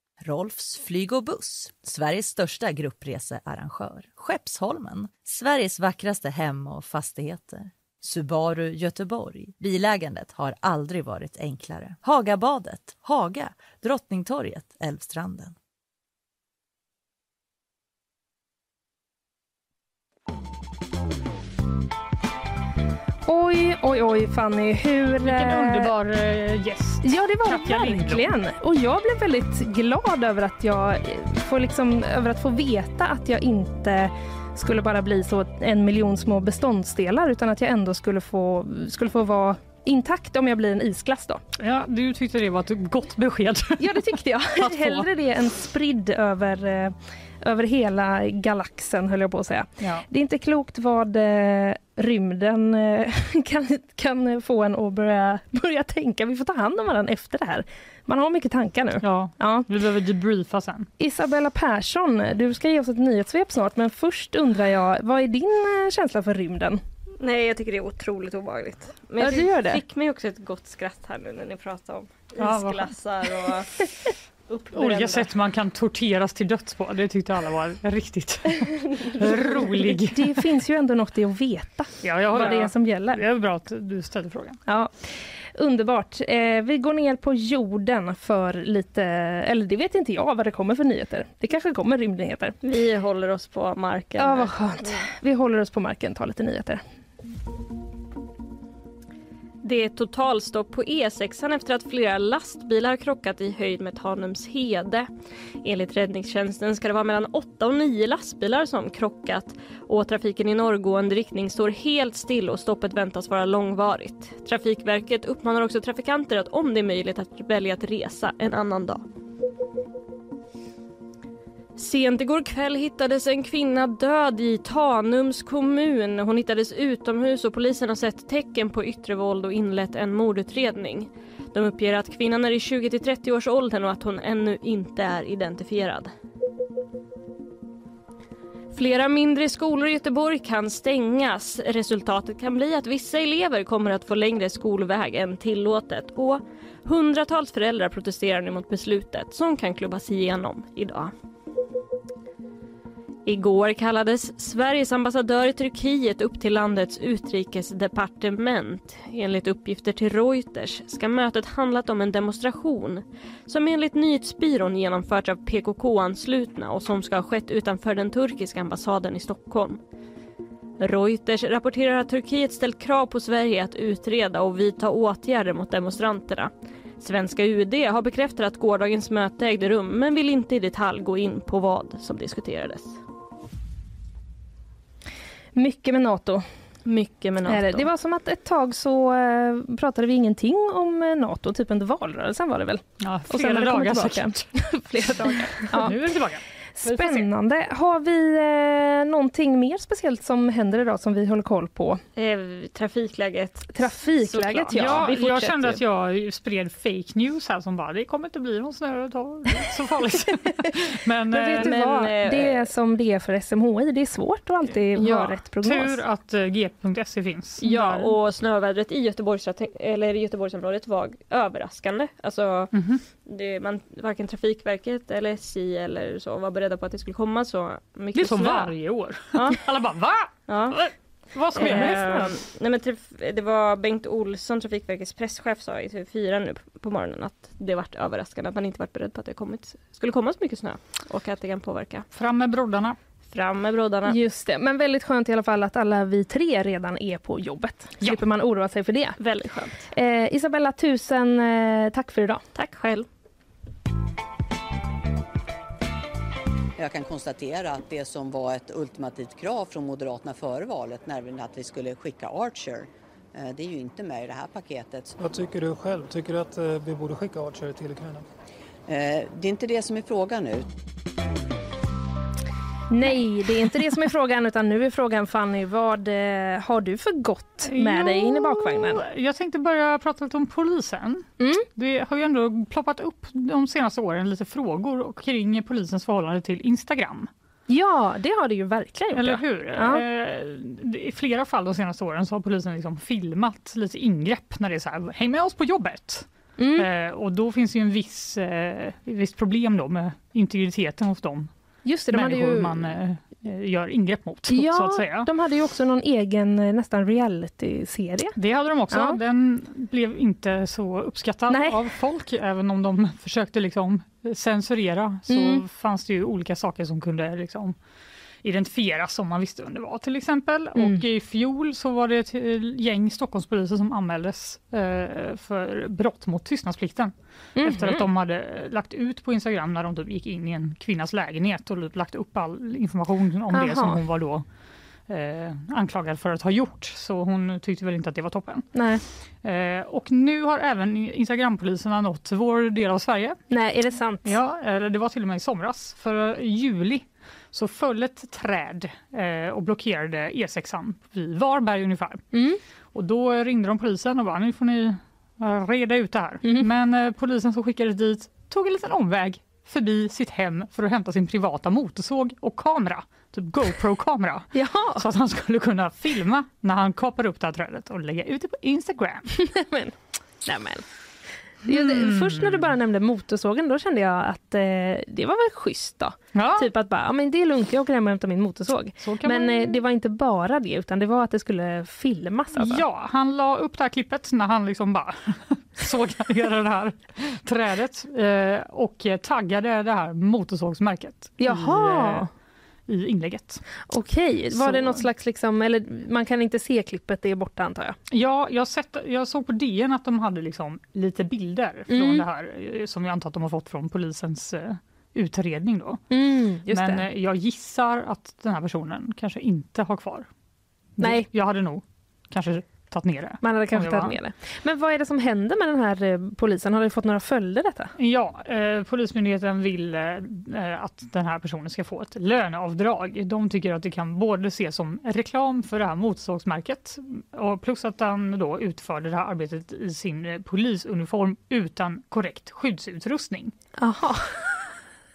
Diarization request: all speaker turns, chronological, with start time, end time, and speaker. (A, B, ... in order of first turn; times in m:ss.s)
0:00.2-0:15.6 A
0:23.3-0:25.9 B
0:25.2-0:28.3 C
0:27.0-0:41.4 B
0:41.6-0:45.1 C
0:43.8-0:59.7 B
0:59.0-1:00.9 C
1:01.0-1:06.8 B
1:07.2-1:15.3 D
1:09.2-1:09.8 B
1:12.4-1:12.9 C
1:14.7-1:20.4 C
1:19.6-1:23.2 B
1:22.0-1:24.6 C
1:24.7-1:32.6 B
1:32.6-1:35.1 D
1:34.2-1:36.8 B
1:39.6-1:45.1 D
1:45.6-1:59.0 D
2:01.8-2:16.1 D
2:18.7-2:31.1 D
2:33.3-2:49.8 D
2:50.8-3:03.0 D
3:05.6-3:06.5 B
3:06.8-3:07.9 D
3:07.4-3:16.0 B
3:13.0-3:14.6 C
3:15.6-3:17.2 C
3:16.8-3:22.0 B
3:22.2-3:25.7 D
3:23.8-3:25.8 B
3:24.7-3:31.8 C
3:31.3-3:36.0 B
3:31.5-3:32.7 D
3:35.1-3:38.1 C
3:37.6-3:42.7 D
3:42.7-3:43.0 C
3:43.2-3:48.7 D
3:48.2-3:52.3 C
3:49.3-3:49.6 D
3:50.5-3:50.8 D
3:51.4-4:02.1 D
3:51.6-3:52.3 B
4:02.1-4:03.0 C
4:03.3-4:04.2 D
4:04.1-4:09.2 B
4:09.2-4:09.9 D
4:09.9-4:12.4 B
4:12.6-4:13.1 D
4:16.8-4:25.2 E
4:25.2-4:28.2 F
4:28.9-4:30.7 E
4:32.9-4:39.0 B
4:37.7-4:47.3 C
4:41.4-4:41.7 B
4:47.7-4:50.0 B
4:49.2-5:01.5 C
4:56.6-4:56.9 B
5:01.8-5:02.9 B
5:02.1-5:05.3 C
5:04.5-5:08.4 B
5:08.4-5:17.8 C
5:08.9-5:09.2 B
5:11.5-5:11.8 B
5:15.3-5:15.6 B
5:18.4-5:34.4 C
5:20.8-5:21.0 B
5:27.6-5:28.0 B
5:33.5-5:34.0 B
5:35.1-5:38.8 C
5:38.7-5:39.0 B
5:39.4-5:43.4 C
5:43.5-5:44.4 B
5:44.2-5:52.3 C
5:52.3-5:52.6 B
5:52.9-6:09.3 C
6:04.5-6:05.0 B
6:09.4-6:10.8 B
6:11.7-6:22.8 B
6:11.7-6:12.7 C
6:16.4-6:16.7 C
6:19.0-6:19.8 C
6:22.6-6:32.3 C
6:31.4-6:32.3 B
6:32.9-6:33.6 C
6:33.9-6:38.0 B
6:34.5-6:35.0 C
6:38.1-6:46.0 C
6:41.9-6:42.2 B
6:46.1-6:47.0 B
6:46.7-6:50.3 C
6:51.0-6:54.2 C
6:51.0-6:51.3 B
6:53.4-6:57.9 B
6:58.0-7:13.5 C
7:13.8-7:14.7 B